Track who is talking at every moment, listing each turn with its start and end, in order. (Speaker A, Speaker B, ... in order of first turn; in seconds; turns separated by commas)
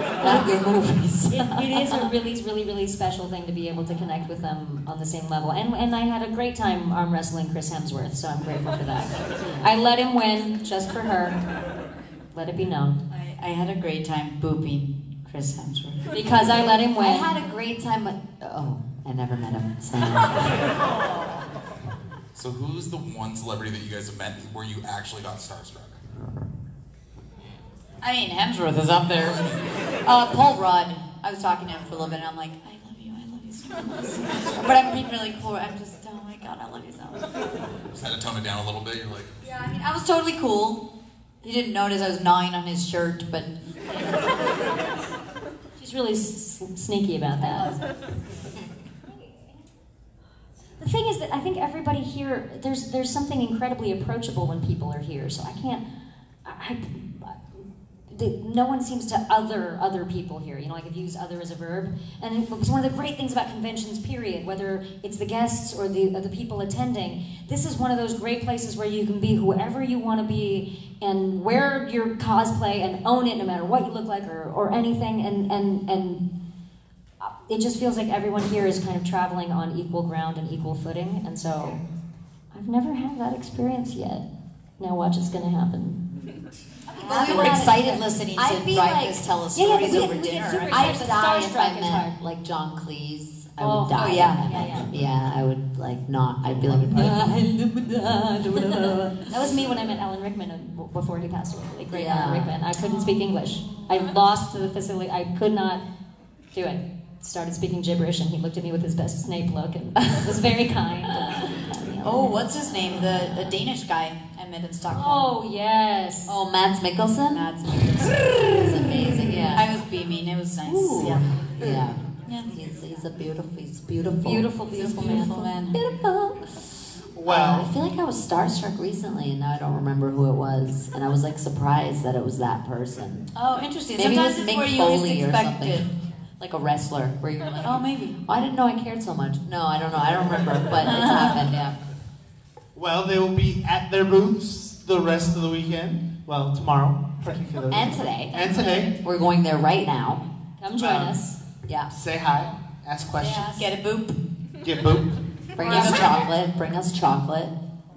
Speaker A: 0.2-2.1, Speaker B: 1.3-11.4, Speaker B: 12.3-13.0, Speaker C: 13.1-16.1, Speaker B: 16.1-17.3, Speaker A: 17.0-20.7, Speaker D: 22.4-26.0, Speaker C: 28.0-29.5, Speaker C: 30.0-37.3, Speaker D: 37.9-39.3, Speaker C: 39.4-40.8, Speaker C: 41.4-43.5, Speaker B: 45.8-47.7, Speaker C: 47.4-47.8, Speaker B: 50.8-55.8, Speaker B: 56.5-57.4, Speaker B: 58.1-76.2, Speaker B: 77.2-81.8, Speaker B: 82.5-84.3, Speaker B: 84.8-86.0, Speaker A: 87.0-89.2, Speaker C: 87.0-90.9, Speaker B: 87.0-88.0, Speaker B: 89.5-92.2, Speaker A: 90.7-97.4, Speaker B: 93.6-94.9, Speaker C: 93.9-94.5, Speaker B: 96.8-105.8, Speaker A: 101.9-102.6, Speaker B: 106.5-112.6, Speaker C: 112.0-115.2, Speaker B: 114.9-116.3, Speaker A: 116.3-117.5, Speaker C: 117.3-121.5, Speaker B: 118.1-118.8, Speaker A: 118.5-119.7, Speaker A: 120.7-133.3, Speaker C: 122.2-122.5, Speaker B: 124.1-125.4, Speaker C: 124.7-125.8, Speaker E: 127.2-127.7, Speaker C: 133.3-135.9, Speaker A: 133.9-141.8, Speaker C: 137.6-138.2, Speaker C: 140.8-141.4, Speaker E: 142.8-148.9, Speaker A: 147.7-150.2, Speaker B: 150.6-151.4, Speaker E: 150.8-151.2, Speaker A: 151.7-151.9, Speaker E: 151.9-153.7, Speaker C: 153.1-154.2, Speaker E: 154.6-155.2, Speaker A: 155.6-157.6, Speaker C: 155.6-156.2